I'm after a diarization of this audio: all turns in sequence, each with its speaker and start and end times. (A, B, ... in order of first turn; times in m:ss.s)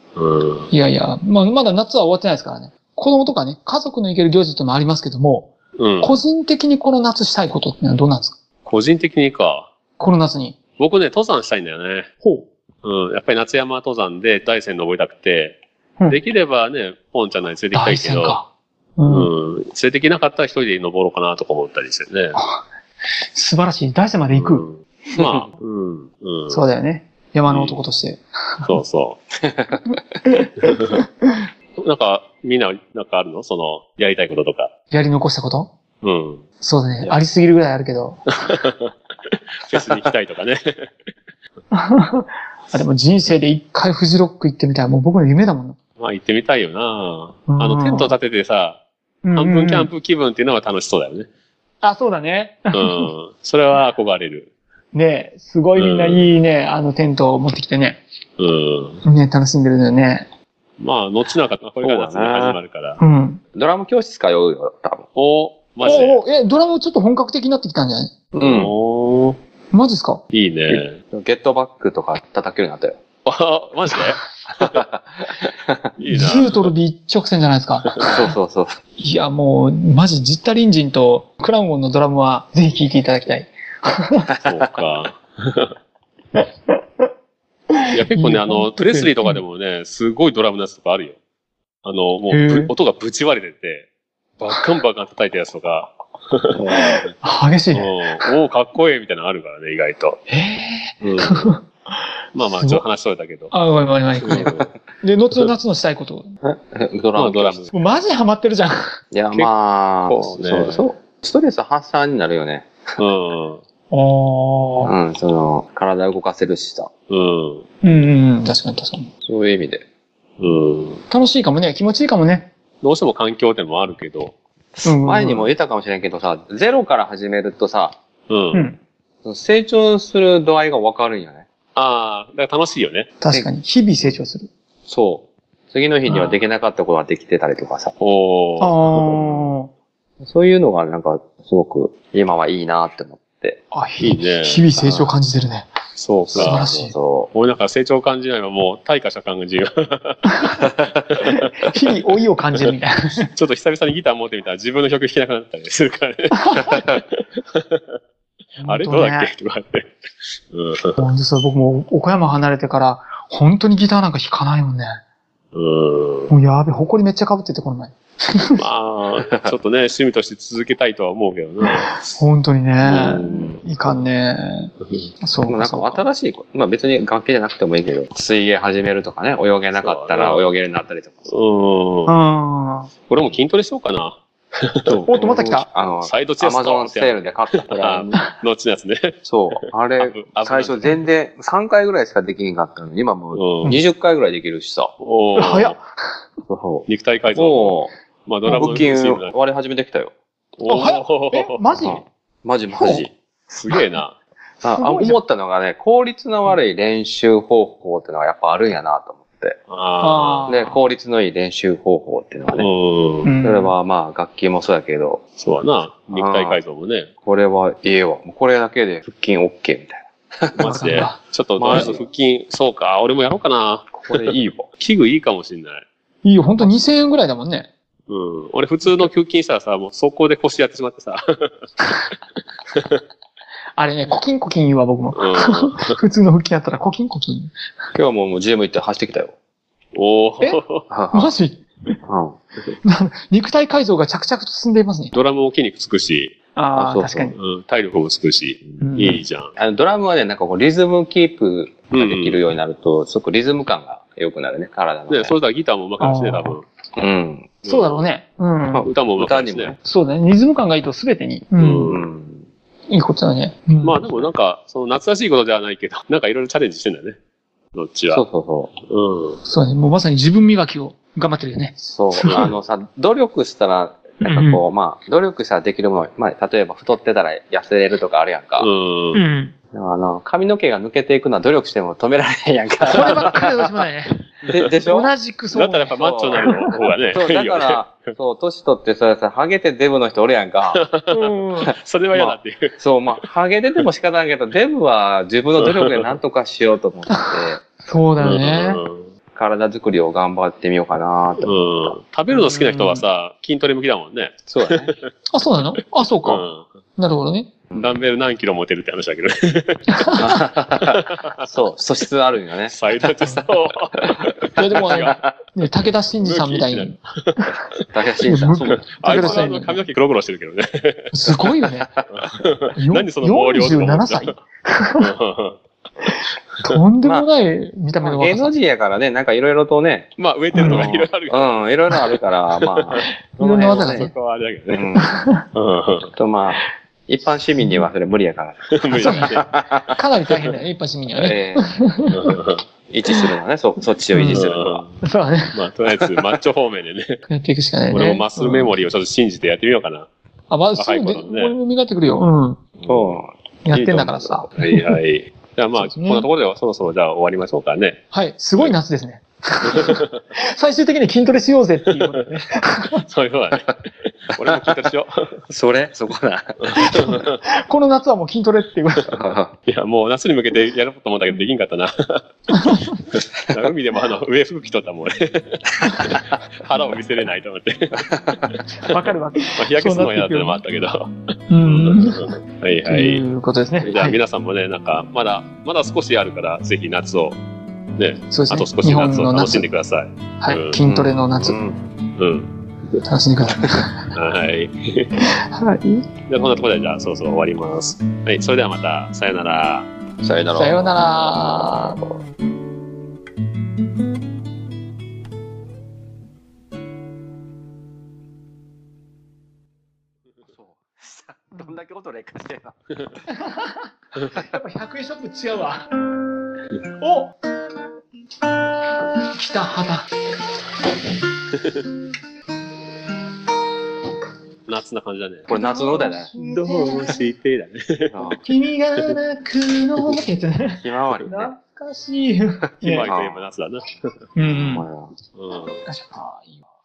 0:00.2-0:00.7 A
0:00.7-0:08.4 B
0:05.8-0:06.2 A
0:08.6-0:09.7 A
0:10.0-0:10.6 B
0:10.8-0:12.1 A
0:12.2-0:12.5 B
0:12.8-0:18.4 A
0:17.7-0:19.3 B
0:19.1-0:22.4 A
0:22.4-0:22.6 B
0:23.3-0:24.6 B
0:24.3-0:26.6 A
0:26.5-0:28.7 B
0:27.5-0:27.8 A
0:28.6-0:29.2 A
0:29.4-0:29.9 C
0:30.3-0:31.0 B
0:31.8-0:34.7 A
0:34.9-0:35.7 B
0:36.0-0:36.4 A
0:36.6-0:38.2 B
0:38.5-0:38.9 A
0:39.6-0:40.9 A
0:41.7-0:45.8 B
0:46.0-0:48.8 A
0:47.5-0:48.1 B
0:49.2-0:49.9 B
0:49.4-0:51.3 A
0:51.8-0:53.1 B
0:52.7-0:54.5 A
0:54.9-0:58.0 B
0:55.8-0:56.3 A
0:58.4-0:59.0 A
0:59.0-1:00.3 B
1:00.8-1:03.0 A
1:01.8-1:02.6 C
1:03.0-1:03.4 B
1:03.5-1:05.1 C
1:05.1-1:06.2 A
1:05.8-1:08.1 B
1:08.3-1:08.7 C
1:08.4-1:09.4 A
1:09.7-1:10.2 B
1:10.3-1:11.0 A
1:10.7-1:13.0 C
1:13.2-1:14.8 A
1:14.6-1:15.8 C
1:16.0-1:16.7 A
1:16.1-1:18.2 B
1:18.0-1:18.8 C
1:19.0-1:24.3 B
1:24.4-1:25.7 A
1:26.4-1:27.1 B
1:27.7-1:29.4 B
1:27.9-1:31.2 A
1:31.8-1:33.9 A
1:32.3-1:32.7 B
1:34.4-1:37.1 A
1:36.5-1:37.0 C
1:37.2-1:38.3 B
1:37.7-1:40.2 A
1:40.3-1:41.6 B
1:41.0-1:41.5 A
1:42.3-1:43.5 A
1:42.4-1:42.8 B
1:43.5-1:46.3 B
1:44.2-1:44.7 A
1:44.3-1:44.6 C
1:46.4-1:47.7 C
1:47.2-1:47.7 A
1:47.7-1:49.0 B
1:49.1-1:52.8 C
1:50.0-1:50.8 A
1:53.0-1:53.6 A
1:53.9-1:54.9 B
1:54.8-1:56.9 C
1:57.1-1:57.6 A
1:57.8-1:59.1 B
1:59.2-1:59.8 C
2:00.4-2:01.0 A
2:01.1-2:02.5 B
2:02.8-2:04.3 A
2:04.8-2:08.0 C
2:04.8-2:05.5 B
2:08.3-2:08.7 A
2:08.5-2:08.8 B
2:09.2-2:11.4 C
2:11.7-2:13.1 A
2:13.2-2:14.5 B
2:13.3-2:14.2 C
2:14.9-2:17.9 C
2:16.1-2:16.4 B
2:18.0-2:19.4 A
2:18.6-2:19.7 B
2:20.2-2:23.6 C
2:23.7-2:25.7 B
2:24.0-2:24.7 A
2:24.8-2:25.1 C
2:25.9-2:26.7 A
2:26.3-2:27.3 C
2:26.3-2:26.9 B
2:27.3-2:31.6 A
2:31.4-2:33.3 B
2:33.3-2:37.8 A
2:38.6-2:39.3 B
2:38.6-2:39.9 A
2:40.5-2:41.0 A
2:41.0-2:45.0 B
2:45.5-2:46.3 A
2:46.3-2:48.6 B
2:48.6-2:52.0 A
2:51.7-2:56.0 B
2:52.8-2:53.6 A
2:52.9-2:54.0 C
2:55.4-3:01.3 C
2:59.8-3:00.4 A
3:01.3-3:02.2 A
3:02.1-3:02.9 B
3:03.1-3:04.9 A
3:04.8-3:08.3 C
3:05.1-3:05.7 B
3:06.0-3:11.0 A
3:09.2-3:14.9 C
3:13.3-3:13.8 A
3:15.0-3:15.8 A
3:15.4-3:16.3 B
3:16.5-3:17.9 C
3:16.9-3:19.3 A
3:18.4-3:20.1 C
3:20.6-3:21.6 A
3:20.7-3:22.0 B
3:21.8-3:23.1 C
3:22.7-3:23.1 B
3:23.5-3:24.2 A
3:24.6-3:25.2 B
3:24.6-3:29.6 C
3:29.7-3:30.5 A
3:30.0-3:30.8 B
3:30.5-3:32.7 C
3:32.5-3:33.3 A
3:33.2-3:33.7 B
3:33.4-3:35.2 C
3:35.4-3:37.1 A
3:36.1-3:36.6 C
3:37.2-3:42.0 C
3:40.5-3:44.2 A
3:40.6-3:42.0 B
3:43.9-3:44.7 C
3:44.8-3:45.8 A
3:46.2-3:47.7 B
3:48.1-3:52.0 A
3:52.7-3:53.0 A
3:53.8-3:57.5 B
3:55.2-3:55.9 A
3:57.9-3:59.3 C
3:59.9-4:00.8 A
4:00.9-4:01.3 C
4:01.1-4:02.0 B
4:02.0-4:02.4 C
4:02.8-4:05.1 B
4:05.1-4:06.3 A
4:06.5-4:07.4 B
4:06.7-4:07.3 C
4:07.3-4:09.5 A
4:08.8-4:09.2 B
4:09.6-4:15.4 C
4:11.9-4:12.4 A
4:15.1-4:16.6 A
4:16.0-4:16.6 B
4:17.0-4:17.6 C
4:17.6-4:18.0 A
4:17.6-4:18.8 B
4:18.7-4:19.8 C
4:18.8-4:19.8 A
4:19.8-4:22.0 B
4:21.6-4:22.0 A
4:21.9-4:22.5 C
4:22.9-4:24.3 B
4:23.8-4:27.2 A
4:27.7-4:28.2 A
4:28.1-4:28.7 C
4:28.8-4:29.4 A
4:29.4-4:32.5 B
4:31.8-4:38.7 C
4:34.3-4:34.6 B
4:38.6-4:39.2 A
4:39.1-4:39.5 B
4:39.7-4:43.7 C
4:42.9-4:44.1 B
4:44.5-4:45.1 C
4:44.8-4:46.5 B
4:45.5-4:48.0 A
4:45.7-4:50.8 C
4:50.7-4:52.7 A
4:51.1-4:51.7 B
4:52.1-4:57.6 C
4:55.6-4:56.1 A
4:57.1-4:58.8 B
4:58.2-4:59.1 A
4:59.3-5:01.9 C
5:01.4-5:05.1 A
5:02.3-5:03.0 B
5:04.5-5:04.9 C
5:05.3-5:07.5 B
5:06.2-5:06.7 A
5:07.7-5:08.0 C
5:07.7-5:09.8 A
5:09.9-5:10.4 B
5:10.2-5:13.5 C
5:10.8-5:11.4 A
5:12.7-5:15.2 A
5:14.6-5:17.6 B
5:14.8-5:15.3 C
5:16.2-5:17.4 A
5:17.9-5:19.5 C
5:18.2-5:19.8 B
5:18.6-5:21.4 A
5:21.1-5:21.9 B
5:22.1-5:24.3 A
5:22.8-5:25.1 B
5:25.0-5:25.6 A
5:26.0-5:28.5 B
5:27.0-5:27.3 C
5:28.0-5:30.1 C
5:30.2-5:33.0 A
5:30.5-5:30.9 B
5:30.6-5:34.1 C
5:33.0-5:34.1 B
5:33.6-5:34.9 A
5:34.7-5:35.2 C
5:35.0-5:35.4 B
5:35.5-5:36.1 A
5:36.1-5:40.0 C
5:37.6-5:37.9 B
5:38.8-5:39.4 A
5:38.9-5:42.1 B
5:41.1-5:41.7 C
5:42.1-5:42.6 A
5:42.9-5:44.8 C
5:44.1-5:44.4 B
5:44.2-5:44.9 A
5:45.0-5:45.5 B
5:45.5-5:47.2 A
5:47.3-5:48.7 B
5:47.9-5:50.1 A
5:50.5-5:52.6 B
5:50.7-5:51.6 A
5:52.8-5:54.5 C
5:52.9-5:53.2 A
5:53.6-5:54.9 B
5:54.6-5:58.0 A
5:55.8-5:56.3 B
5:58.1-6:03.0 B
5:59.7-6:00.2 A
6:03.0-6:05.1 A
6:05.5-6:06.8 C
6:06.6-6:07.4 A
6:06.9-6:09.1 B
6:09.1-6:09.5 C
6:09.6-6:12.2 A
6:12.5-6:12.9 B
6:13.1-6:23.2 A
6:18.8-6:20.6 B
6:21.5-6:24.2 B
6:23.8-6:27.4 A
6:28.0-6:30.8 A
6:28.3-6:29.7 B
6:30.4-6:31.6 B
6:30.8-6:31.9 C
6:32.2-6:32.5 A
6:33.0-6:34.1 B
6:34.1-6:35.1 A
6:35.2-6:36.1 B
6:36.3-6:39.9 A
6:40.2-6:42.2 C
6:40.5-6:42.0 B
6:50.5-6:52.8 C
6:53.4-6:53.7 B
6:54.4-6:55.9 B
6:57.0-6:57.3 B
6:59.3-7:00.1 B
7:01.6-7:01.8 A
7:04.6-7:05.5 A
7:05.5-7:06.3 C
7:05.5-7:07.3 B
7:06.4-7:08.4 A
7:08.1-7:08.4 C
7:08.4-7:13.1 B
7:10.7-7:11.5 C
7:12.8-7:13.8 A
7:13.0-7:13.4 C
7:14.4-7:14.9 B
7:14.5-7:15.1 C
7:15.3-7:15.8 A
7:15.8-7:16.6 B